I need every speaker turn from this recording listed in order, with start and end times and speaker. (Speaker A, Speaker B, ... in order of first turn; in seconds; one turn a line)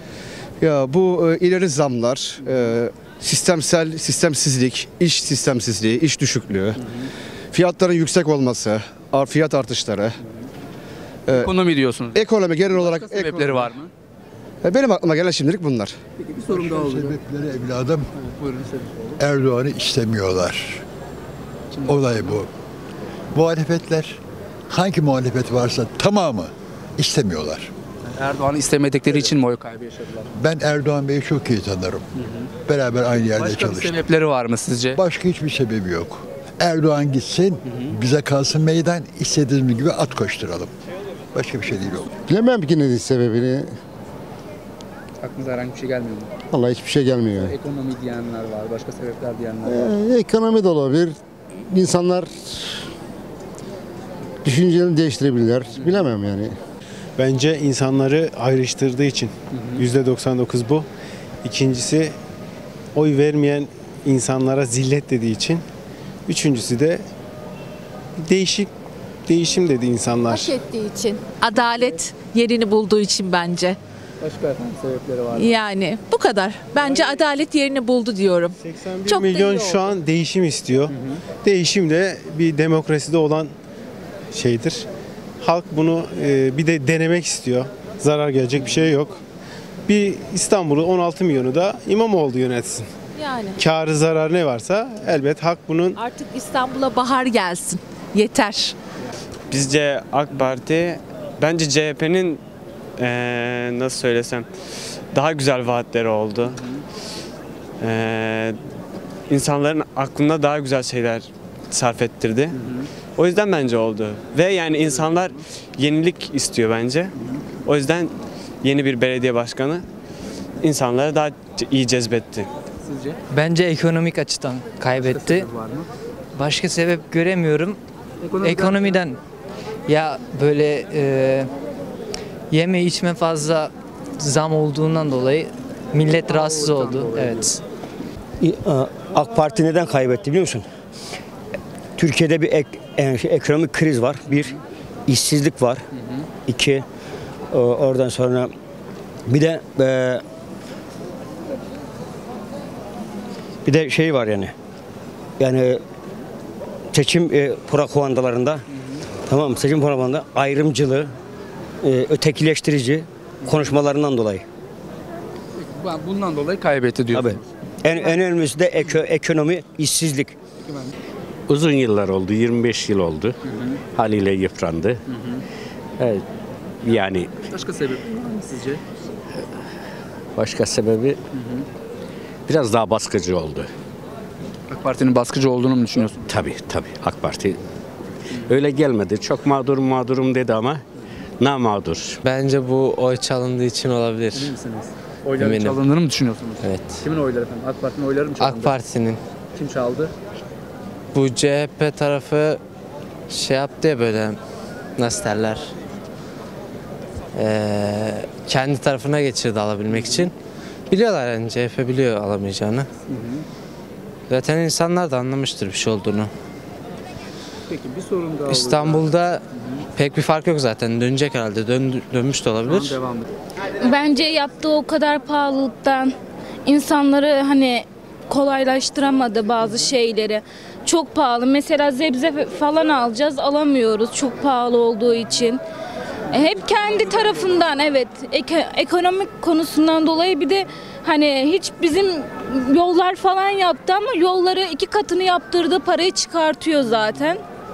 Speaker A: 0.6-6.8
Speaker B: 2.4-2.8
Speaker A: 7.5-10.1
Speaker A: 11.3-11.6
Speaker B: 11.3-13.9
Speaker A: 12.1-13.8
Speaker A: 14.6-15.9
Speaker B: 16.2-17.1
Speaker C: 16.5-18.1
Speaker B: 18.2-19.2
Speaker C: 19.2-20.8
Speaker B: 21.7-22.4
Speaker C: 21.8-22.5
Speaker C: 23.3-24.2
Speaker C: 24.7-27.7
Speaker B: 28.1-30.3
Speaker C: 30.4-32.0
Speaker B: 32.2-32.5
Speaker C: 32.6-34.0
Speaker B: 33.1-35.0
Speaker C: 35.0-40.7
Speaker B: 37.6-37.9
Speaker C: 41.3-42.1
Speaker D: 42.2-43.7
Speaker B: 45.2-46.3
Speaker D: 46.5-47.5
Speaker B: 47.3-49.9
Speaker D: 49.6-51.1
Speaker D: 51.7-52.5
Speaker D: 54.4-56.5
Speaker B: 55.8-56.1
Speaker E: 57.2-60.9
Speaker B: 59.5-59.8
Speaker E: 61.4-62.1
Speaker E: 62.9-65.6
Speaker E: 66.3-67.0
Speaker E: 68.2-68.7
Speaker E: 69.3-70.6
Speaker F: 70.3-73.8
Speaker B: 74.2-75.6
Speaker F: 75.3-79.7
Speaker E: 78.6-80.9
Speaker B: 80.9-81.2
Speaker E: 81.4-83.5
Speaker E: 84.3-84.9
Speaker E: 85.4-89.2
Speaker E: 89.9-92.9
Speaker F: 93.2-93.6
Speaker E: 93.5-96.0
Speaker F: 96.0-98.7
Speaker G: 99.5-102.4
Speaker G: 103.0-104.5
Speaker G: 105.1-106.6
Speaker B: 106.5-106.8
Speaker G: 107.8-108.6
Speaker G: 109.3-112.5
Speaker B: 112.5-112.9
Speaker G: 113.2-117.1
Speaker B: 114.7-115.4
Speaker B: 117.2-117.4
Speaker G: 117.6-118.1
Speaker G: 118.6-119.8
Speaker G: 120.6-122.5
Speaker B: 122.8-123.2
Speaker H: 123.3-125.5
Speaker B: 124.9-125.9
Speaker H: 126.3-127.8
Speaker B: 128.2-129.0
Speaker H: 128.4-129.2
Speaker H: 129.9-131.5
Speaker H: 132.5-137.6
Speaker B: 136.2-137.5
Speaker I: 138.4-140.7
Speaker I: 142.0-144.5
Speaker I: 145.1-145.8
Speaker B: 146.0-146.2
Speaker I: 146.5-146.8
Speaker I: 147.5-148.5
Speaker I: 149.3-150.2
Speaker I: 153.6-154.5
Speaker I: 155.4-155.8
Speaker I: 156.9-158.6
Speaker I: 159.3-161.1
Speaker I: 161.8-164.4
Speaker B: 163.4-163.7
Speaker B: 165.6-167.4
Speaker I: 167.1-170.3
Speaker B: 170.6-170.9
Speaker J: 171.5-173.3
Speaker B: 173.4-173.8
Speaker J: 173.9-174.9
Speaker B: 175.1-175.4
Speaker J: 176.8-177.3
Speaker B: 177.5-178.8
Speaker J: 180.4-181.1
Speaker B: 181.3-181.7
Speaker J: 182.5-183.7
Speaker B: 184.7-186.3
Speaker J: 186.3-187.6
Speaker J: 188.5-190.8
Speaker J: 191.4-192.1
Speaker H: 192.2-194.5
Speaker B: 194.3-198.8
Speaker H: 195.3-195.8
Speaker H: 196.6-197.0
Speaker H: 198.4-199.2
Speaker B: 199.5-200.1
Speaker H: 201.1-202.6
Speaker H: 203.3-204.4
Speaker H: 205.0-205.7
Speaker H: 207.3-210.3
Speaker B: 209.9-210.2
Speaker H: 210.9-212.9
Speaker B: 213.1-213.4
Speaker H: 214.3-216.3
Speaker B: 217.7-219.8
Speaker H: 218.5-219.4
Speaker H: 219.9-223.0
Speaker B: 222.7-223.3
Speaker K: 223.8-226.1
Speaker K: 226.7-235.6
Speaker K: 236.3-247.4